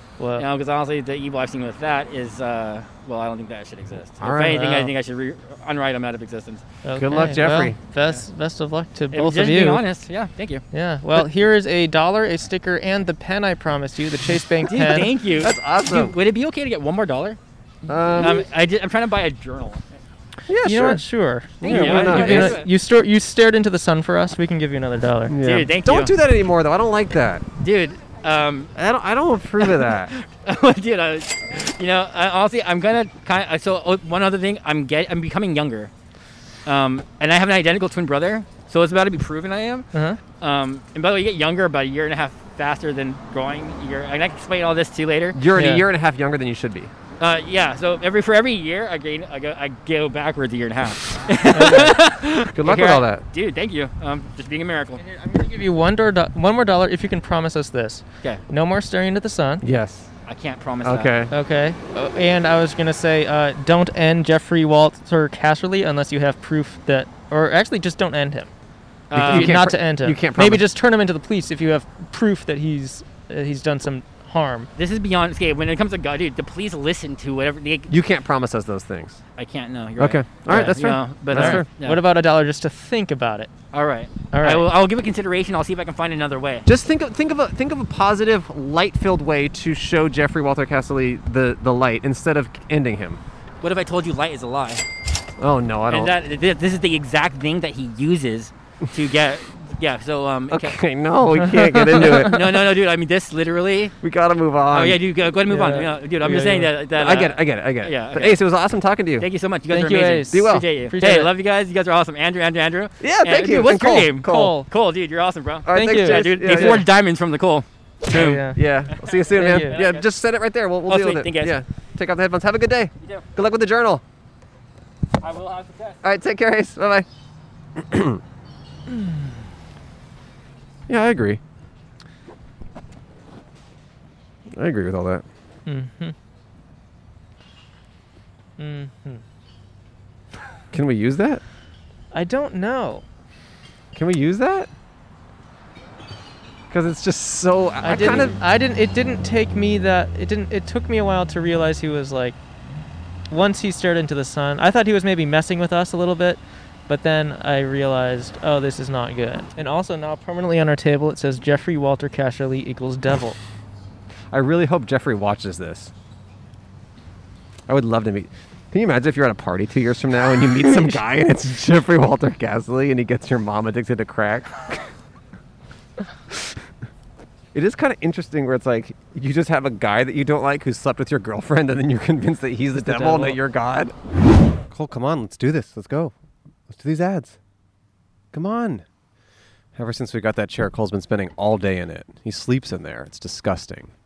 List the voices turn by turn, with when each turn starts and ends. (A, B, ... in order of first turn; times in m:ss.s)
0:00.2-0:00.4 A
0:00.4-0:06.6 B
0:04.2-0:04.6 C
0:04.4-0:04.9 A
0:06.8-0:09.8 A
0:07.0-0:07.8 C
0:09.1-0:10.6 B
0:10.7-0:15.1 A
0:14.7-0:17.4 B
0:15.4-0:16.1 C
0:17.9-0:18.4 C
0:18.2-0:19.9 B
0:20.5-0:21.0 C
0:20.6-0:25.4 A
0:21.6-0:22.6 C
0:21.6-0:22.7 B
0:25.3-0:27.4 C
0:25.4-0:26.1 B
0:27.6-0:28.7 B
0:28.7-0:30.1 C
0:29.6-0:35.9 B
0:36.6-0:39.9 B
0:39.9-0:40.2 A
0:40.4-0:45.4 B
0:45.4-0:46.9 C
0:45.5-0:45.8 A
0:47.2-0:55.0 B
0:51.5-0:52.0 A
0:51.6-0:51.9 C
0:52.5-0:53.2 C
0:55.0-0:59.6 A
0:59.6-1:00.1 C
1:00.2-1:01.1 B
1:00.8-1:01.3 C
1:01.3-1:08.5 A
1:09.1-1:09.6 B
1:09.1-1:10.6 C
1:09.2-1:14.7 A
1:14.8-1:18.0 B
1:17.9-1:19.2 C
1:19.4-1:22.0 B
1:20.0-1:21.6 C
1:20.5-1:20.8 A
1:21.3-1:23.5 A
1:23.7-1:26.7 B
1:24.3-1:24.6 A
1:26.6-1:33.2 C
1:33.6-1:34.8 B
1:35.4-1:36.1 C
1:35.9-1:40.8 B
1:40.5-1:42.6 C
1:41.3-1:42.3 A
1:41.9-1:43.9 B
1:44.0-1:45.0 C
1:44.7-1:48.4 B
1:45.5-1:46.7 A
1:46.9-1:49.3 C
1:49.2-2:00.1 B
1:49.7-1:51.3 A
1:50.3-1:51.3 C
1:53.0-1:54.5 C
1:54.2-1:54.7 A
1:55.6-1:56.9 C
1:55.7-1:56.8 A
1:58.1-2:04.0 C
1:58.1-1:58.6 A
1:59.4-1:59.8 A
2:00.9-2:01.6 B
2:05.2-2:06.0 B
2:06.0-2:07.1 C
2:07.8-2:08.2 C
2:08.9-2:09.3 A
2:10.9-2:11.4 C
2:14.5-2:15.2 C
2:15.6-2:16.1 A
2:18.6-2:19.2 A
2:20.7-2:21.4 C
2:22.1-2:23.0 A
2:23.9-2:24.7 C
2:26.7-2:28.4 C
2:27.8-2:32.4 A
2:33.3-2:43.4 A
2:44.3-2:45.9 C
2:47.7-2:54.9 C
2:56.3-2:56.6 C
2:57.5-3:03.9 C
3:02.8-3:03.4 A
3:04.7-3:06.1 C
3:06.7-3:07.4 C
3:08.3-3:08.8 C
3:09.8-3:13.9 C